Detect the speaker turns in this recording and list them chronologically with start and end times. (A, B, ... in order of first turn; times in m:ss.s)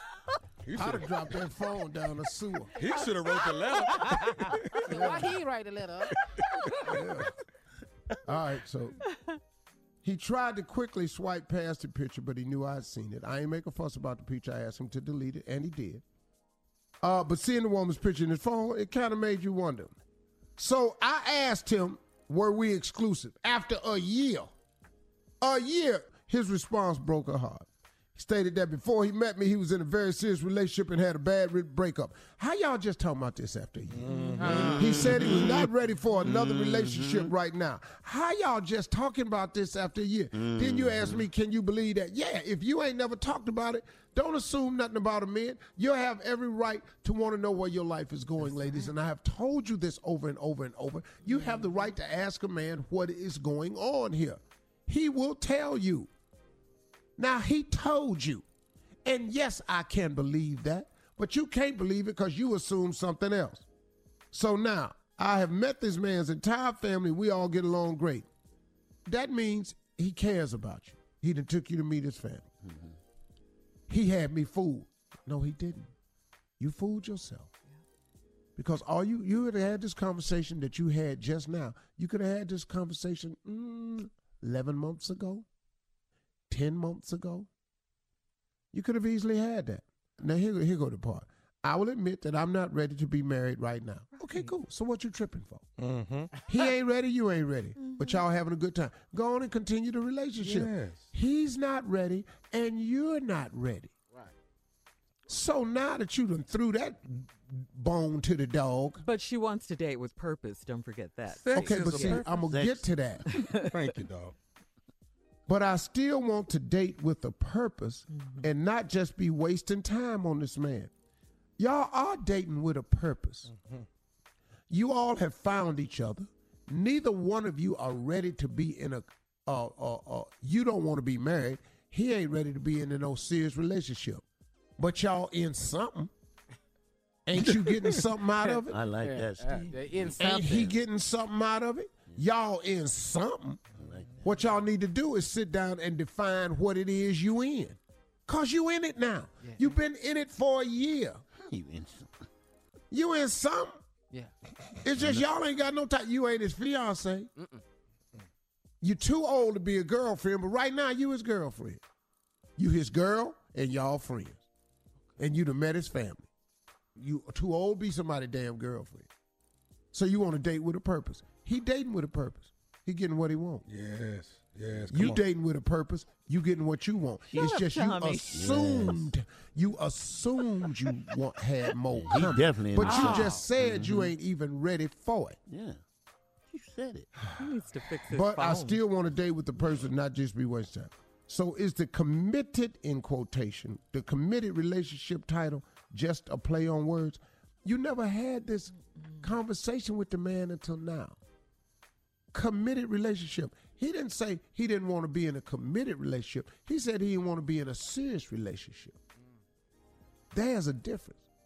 0:00.6-0:01.1 A
0:00.8-0:02.7 B
0:02.8-0:05.2 A
0:02.9-0:04.1 C
0:04.9-0:06.1 D
0:04.9-0:05.3 B
0:06.1-0:07.1 A
0:06.8-0:07.3 B
0:08.2-0:09.0 B
0:09.1-0:09.4 C
0:10.0-0:16.0 B
0:17.0-0:20.0 B
0:20.6-0:24.5 B
0:25.4-0:56.1 B
0:33.9-0:35.2 A
0:34.4-0:34.8 D
0:34.5-0:35.6 E
0:36.2-0:37.3 E
0:40.3-0:41.2 E
0:51.2-0:51.6 C
0:57.2-0:58.4 B
0:59.0-1:03.7 B
1:04.3-1:08.3 B
1:09.0-1:12.5 B
1:12.6-1:12.9 E
1:13.9-1:15.9 B
1:16.6-1:17.5 B
1:18.6-1:25.4 B
1:26.5-1:27.5 B
1:28.7-1:35.7 B
1:34.2-1:34.5 C
1:35.8-1:36.3 A
1:36.5-1:43.9 B
1:37.8-1:38.2 C
1:40.4-1:41.0 A
1:45.3-1:49.0 B
1:49.0-1:52.2 C
1:51.3-1:52.4 A
1:51.5-1:53.2 B
1:52.3-1:52.8 E
1:53.3-1:53.7 C
1:53.5-1:54.3 A
1:55.5-2:00.9 B
1:58.1-1:58.5 C
2:01.6-2:03.5 B
2:03.5-2:03.8 A
2:04.7-2:14.2 B
2:14.8-2:16.1 B
2:17.2-2:18.8 B
2:18.7-2:20.2 E
2:19.0-2:20.7 D
2:20.2-2:23.6 B
2:23.8-2:24.2 E
2:24.2-2:31.2 B
2:29.4-2:29.7 D
2:31.5-2:32.3 E
2:32.9-2:33.8 B
2:34.8-2:37.3 B
2:35.0-2:35.2 E
2:37.4-2:37.6 D
2:38.8-2:41.8 B
2:42.6-2:44.4 B
2:45.2-2:46.3 B
2:47.0-2:49.1 B
2:49.9-2:53.6 B
2:53.7-2:55.2 A
2:54.9-3:05.4 B
2:57.3-2:58.4 C
2:58.3-2:59.1 E
3:01.9-3:04.1 E
3:02.8-3:03.3 D
3:02.9-3:03.2 C
3:05.5-3:05.8 E
3:06.5-3:07.1 E
3:07.4-3:08.8 C
3:08.1-3:21.2 B
3:19.0-3:19.3 C
3:22.3-3:29.0 B
3:30.3-3:31.2 B